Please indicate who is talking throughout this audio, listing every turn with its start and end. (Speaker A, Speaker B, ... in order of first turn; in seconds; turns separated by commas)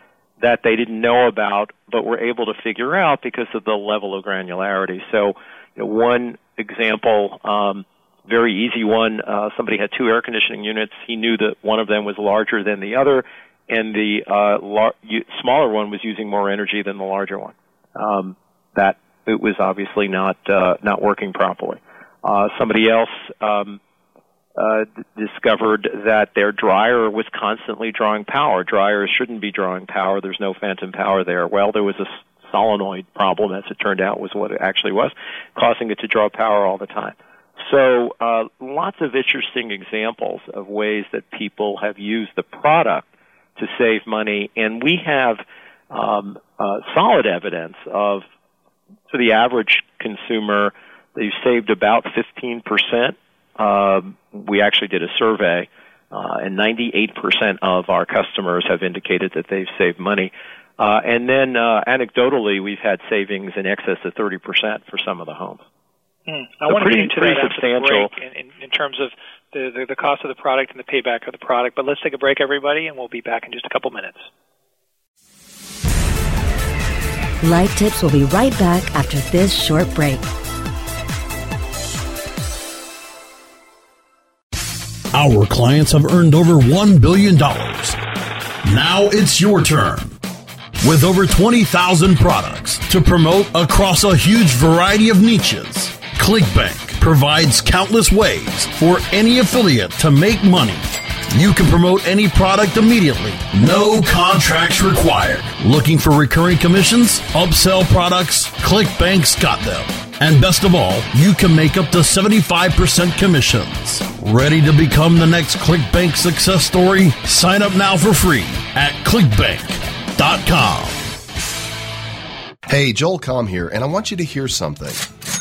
Speaker A: 0.4-23.8, Speaker A: 24.6-43.0, Speaker A: 43.6-48.2, Speaker A: 49.1-65.6, Speaker B: 66.3-74.2, Speaker A: 66.7-68.1, Speaker C: 77.4-80.3, Speaker D: 85.1-88.0, Speaker D: 88.6-90.2, Speaker D: 90.8-121.0, Speaker E: 122.7-125.1